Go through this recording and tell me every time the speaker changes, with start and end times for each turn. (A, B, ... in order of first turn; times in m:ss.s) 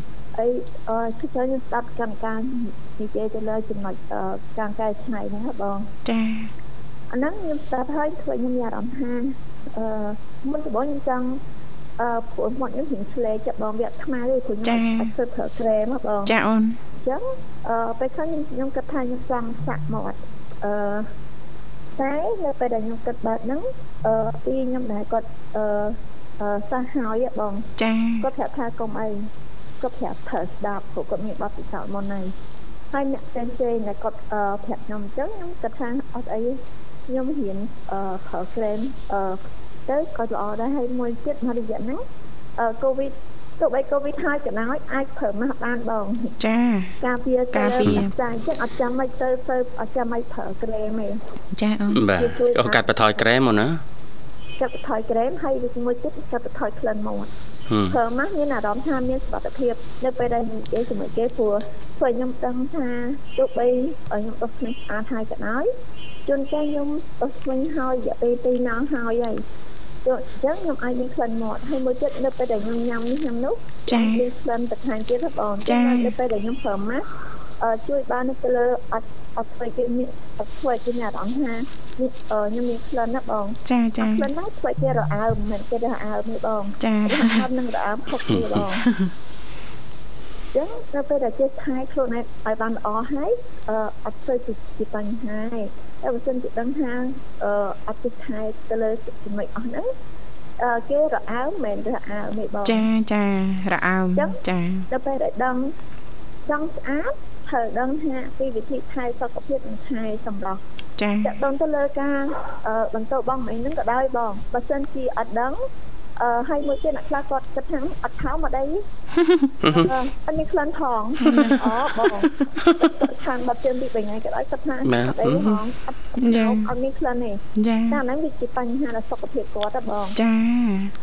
0:00.3-0:05.9 A
0:06.0-0:06.5 B
0:07.1-0:11.4 A
0:12.0-0:16.3 A
0:14.6-0:15.1 B
0:16.2-0:16.8 B
0:17.0-0:21.1 A
0:22.0-0:27.7 A
0:27.8-0:28.3 B
0:28.2-0:29.3 A
0:29.8-0:32.3 A
0:32.9-0:42.0 A
0:42.6-0:46.4 A
0:46.4-0:47.0 B
0:47.0-0:51.2 A
0:47.5-0:48.1 B
0:51.5-0:52.0 B
0:51.9-0:53.8 C
0:52.1-0:52.9 A
0:54.6-0:57.3 A
0:57.7-0:58.0 C
0:57.9-1:05.7 A
1:06.3-1:09.4 A
1:10.0-1:17.0 A
1:13.9-1:14.2 B
1:15.6-1:16.1 B
1:17.6-1:28.9 A
1:23.6-1:24.3 B
1:26.8-1:27.5 B
1:28.8-1:29.1 B
1:30.5-1:39.9 A
1:40.6-1:42.8 A
1:42.6-1:44.9 B
1:44.2-1:45.8 A
1:46.5-1:50.6 A
1:51.0-1:51.4 B
1:51.2-1:55.6 A
1:56.2-1:58.8 A
1:59.2-1:59.6 B
1:59.6-1:59.9 C
1:59.7-2:10.2 A
2:01.2-2:03.0 B
2:04.8-2:05.6 C
2:06.2-2:06.7 B
2:07.6-2:08.0 B
2:10.2-2:10.9 B